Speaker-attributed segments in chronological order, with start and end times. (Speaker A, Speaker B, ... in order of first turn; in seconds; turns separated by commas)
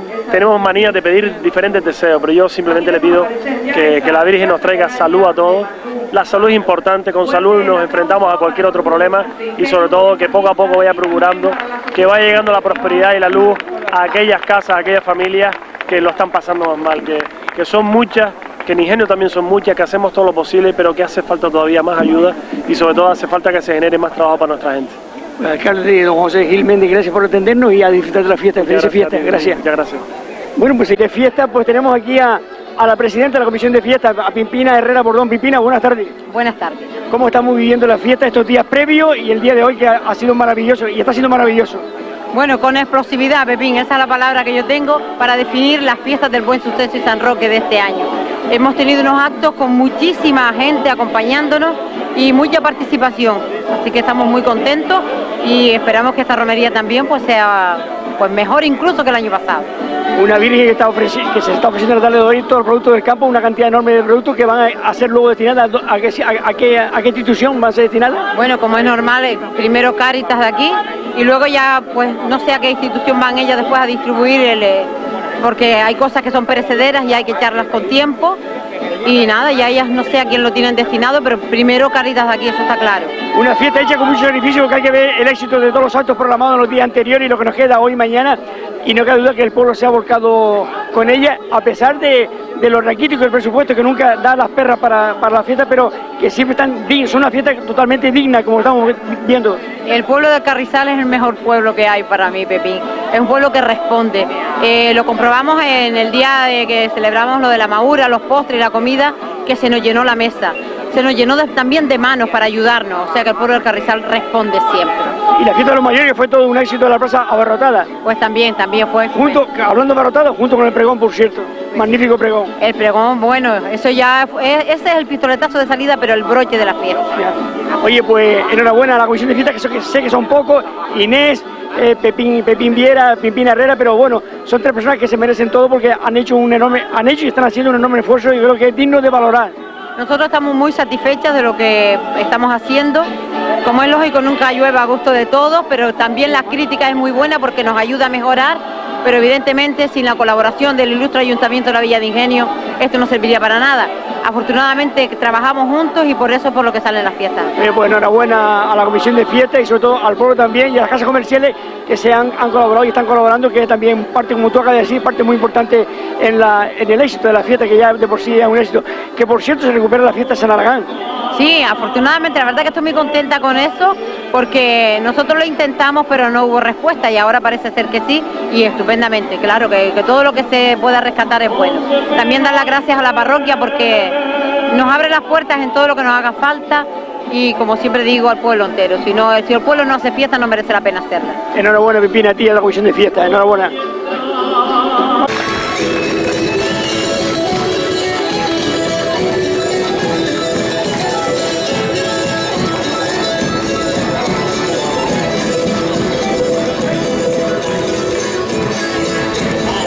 Speaker A: 0.3-25.0, Speaker B: 25.4-29.6, Speaker A: 28.6-30.1, Speaker B: 30.6-36.1, Speaker C: 36.3-36.9, Speaker B: 37.1-41.9, Speaker C: 42.3-59.7, Speaker B: 60.1-68.3, Speaker C: 68.3-78.4, Speaker C: 79.0-83.1, Speaker B: 83.3-99.6, Speaker C: 99.9-115.2, Speaker B: 115.3-117.9, Speaker C: 118.0-119.4, Speaker B: 119.1-122.5, Speaker C: 122.6-127.1, Speaker B: 127.2-139.5, Speaker C: 140.0-143.1, Speaker C: 143.6-157.5, Speaker B: 157.6-170.9, Speaker C: 171.3-191.4, Speaker B: 191.5-193.7